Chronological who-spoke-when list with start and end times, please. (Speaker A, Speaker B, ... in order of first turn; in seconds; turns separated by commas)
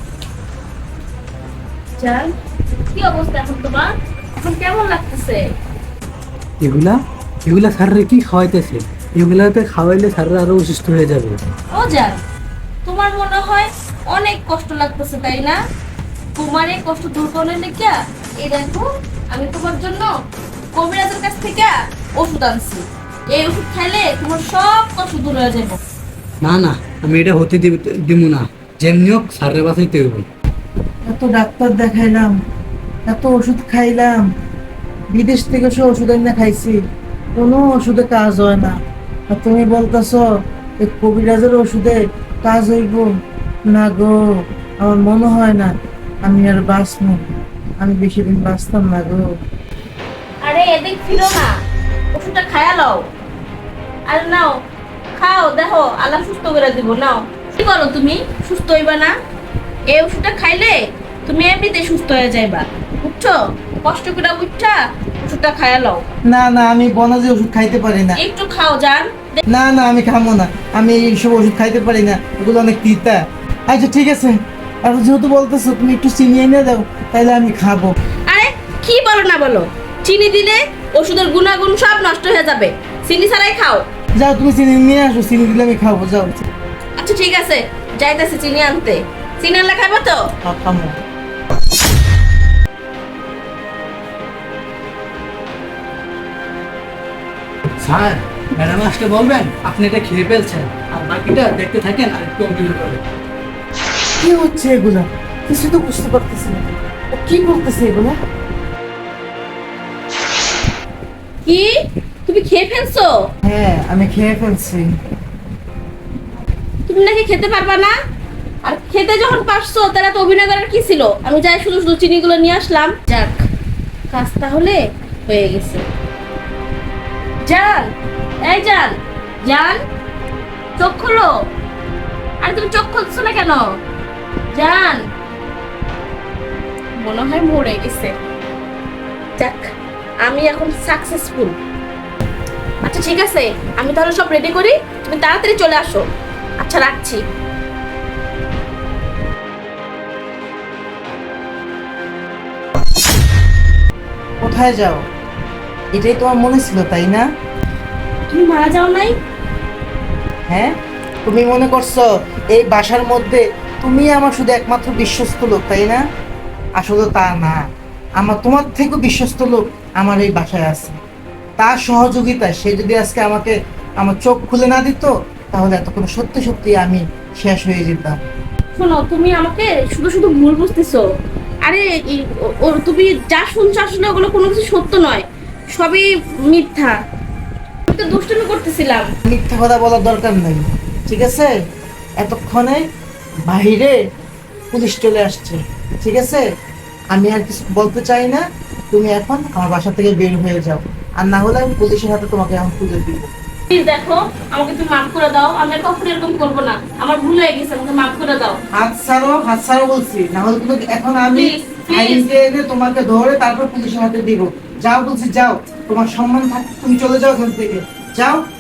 Speaker A: 2.0-5.5, Speaker B: 6.6-11.4, Speaker A: 11.7-12.2, Speaker A: 12.8-15.6, Speaker A: 16.4-20.1, Speaker A: 20.7-25.8, Speaker B: 26.4-30.2, Speaker C: 31.1-32.4, Speaker C: 33.1-34.3, Speaker C: 35.1-36.8, Speaker C: 37.4-40.3, Speaker C: 40.8-43.1, Speaker C: 43.7-47.2, Speaker C: 47.8-49.3, Speaker A: 50.4-51.6, Speaker A: 52.1-53.1, Speaker A: 54.1-54.6, Speaker A: 55.1-59.2, Speaker A: 59.9-66.0, Speaker C: 66.3-68.2, Speaker A: 68.2-69.4, Speaker C: 69.5-78.0, Speaker A: 78.3-83.8, Speaker C: 84.2-86.5, Speaker A: 87.0-90.3, Speaker C: 90.4-91.0, Speaker B: 97.8-103.0, Speaker C: 104.2-108.2, Speaker A: 111.5-113.3, Speaker C: 113.4-114.9, Speaker A: 116.9-118.0, Speaker A: 118.6-123.5, Speaker A: 124.1-125.8, Speaker A: 127.5-127.9, Speaker A: 128.4-129.8, Speaker A: 130.8-131.5, Speaker A: 132.4-133.8, Speaker A: 134.5-135.1, Speaker A: 137.0-138.2, Speaker A: 139.4-139.7, Speaker A: 140.2-141.6, Speaker A: 142.8-146.1, Speaker A: 146.6-147.2, Speaker C: 154.4-155.1, Speaker C: 155.9-157.2, Speaker A: 158.3-159.2, Speaker C: 160.5-166.0, Speaker C: 166.8-171.0, Speaker C: 171.6-178.2, Speaker A: 178.8-181.1, Speaker A: 181.6-187.0, Speaker A: 187.9-189.1, Speaker C: 189.3-191.6, Speaker C: 192.2-192.9, Speaker C: 193.5-194.0, Speaker C: 194.7-196.5, Speaker C: 197.1-203.3, Speaker A: 203.7-208.6, Speaker C: 208.7-218.4, Speaker A: 211.3-212.3